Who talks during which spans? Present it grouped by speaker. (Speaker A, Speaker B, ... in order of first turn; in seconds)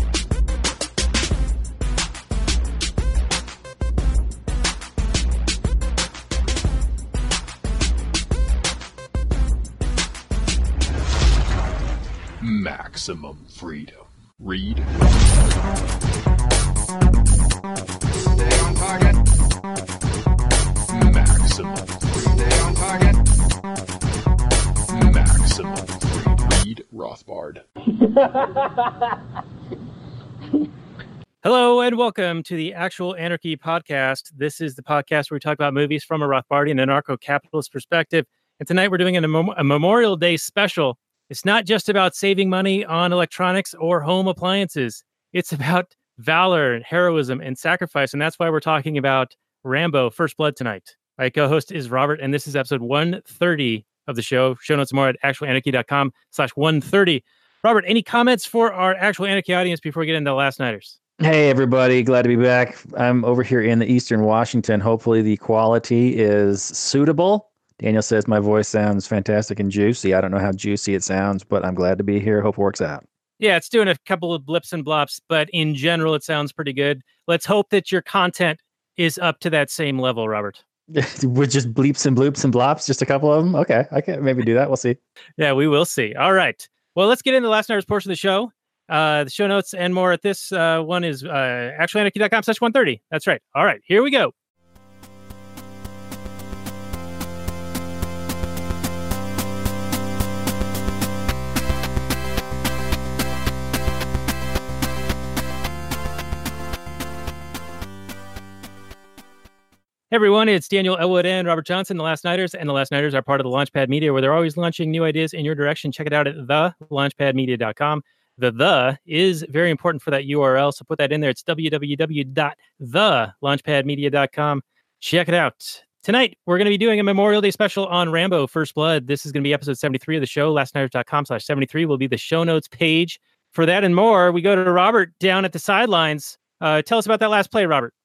Speaker A: 12.4-15.0, 18.2-19.2, 20.9-23.2, 24.9-27.6
Speaker B: 31.4-61.0, 73.4-80.6, 85.4-94.3, 110.1-137.9
Speaker C: 61.2-73.0, 80.9-85.0